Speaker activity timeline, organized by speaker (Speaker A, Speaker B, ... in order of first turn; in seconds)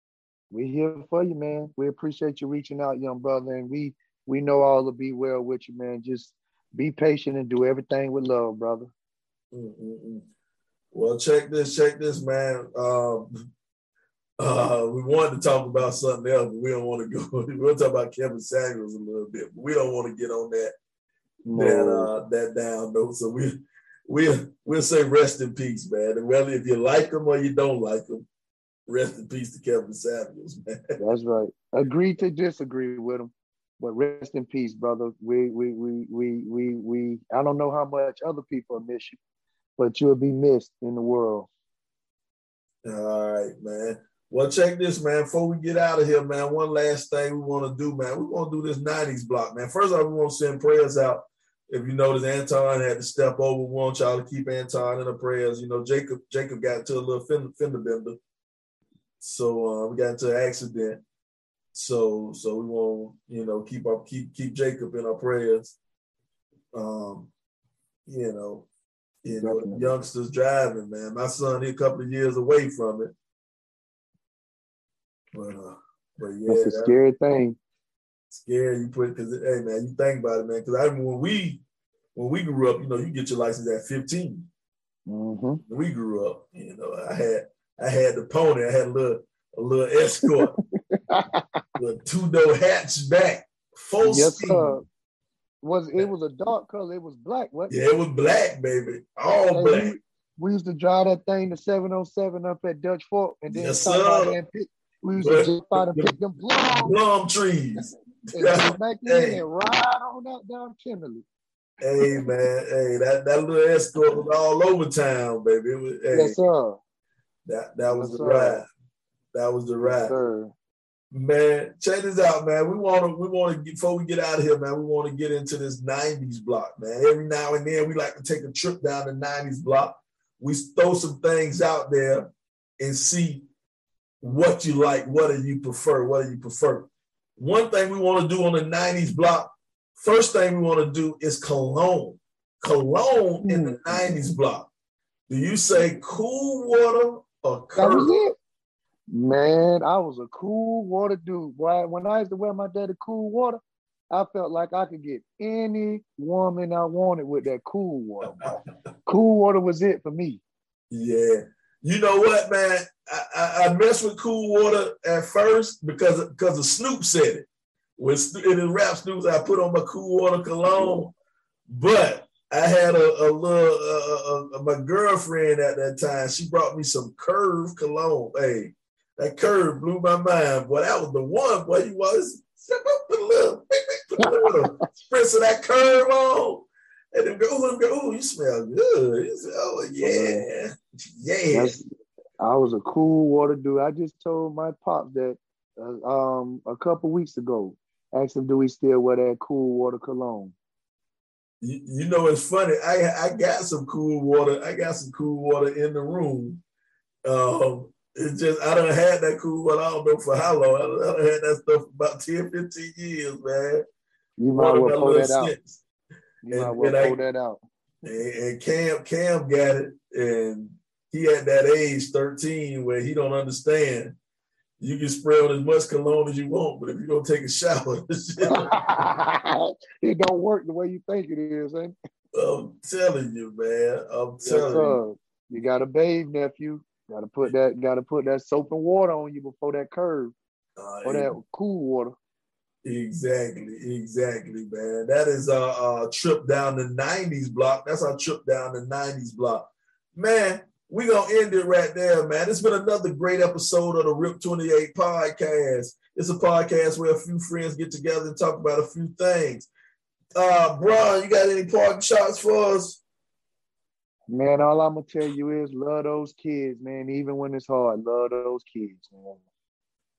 Speaker A: 0.5-8.9, 21.4-22.1, 31.0-39.2, 39.8-41.5, 69.3-69.9, 76.5-77.6, 85.1-85.6, 90.6-91.4, 94.0-94.8, 95.6-97.7, 99.5-107.0, 108.3-111.2, 116.1-116.8, 117.9-118.6, 119.8-120.5, 143.4-144.2, 147.8-148.4, 149.1-153.6, 154.1-160.4, 190.0-190.4, 191.5-191.8, 192.4-200.6, 214.4-215.6, 216.4-217.6, 228.4-231.9, 234.4-240.3, 241.0-242.1, 264.3-269.4
Speaker B: 9.5-10.3, 10.9-13.5, 14.4-20.7, 21.6-28.3, 28.9-31.0, 42.8-58.2, 59.2-61.0, 61.7-65.8, 66.7-67.3, 68.1-68.7, 69.2-73.1, 75.3-76.9, 78.3-81.6, 82.2-84.5, 85.7-90.5, 91.8-94.8, 97.7-100.0, 103.5-104.4, 105.2-106.2, 106.8-109.4, 111.8-116.4, 117.5-118.7, 119.3-120.2, 121.1-133.4, 134.2-144.7, 145.3-148.2, 160.9-171.1, 171.7-191.8, 201.6-206.6, 207.2-213.9, 214.5-215.8, 216.5-217.2, 218.0-224.2, 224.8-228.7, 232.3-235.0, 240.8-241.4, 242.8-259.7, 260.4-263.0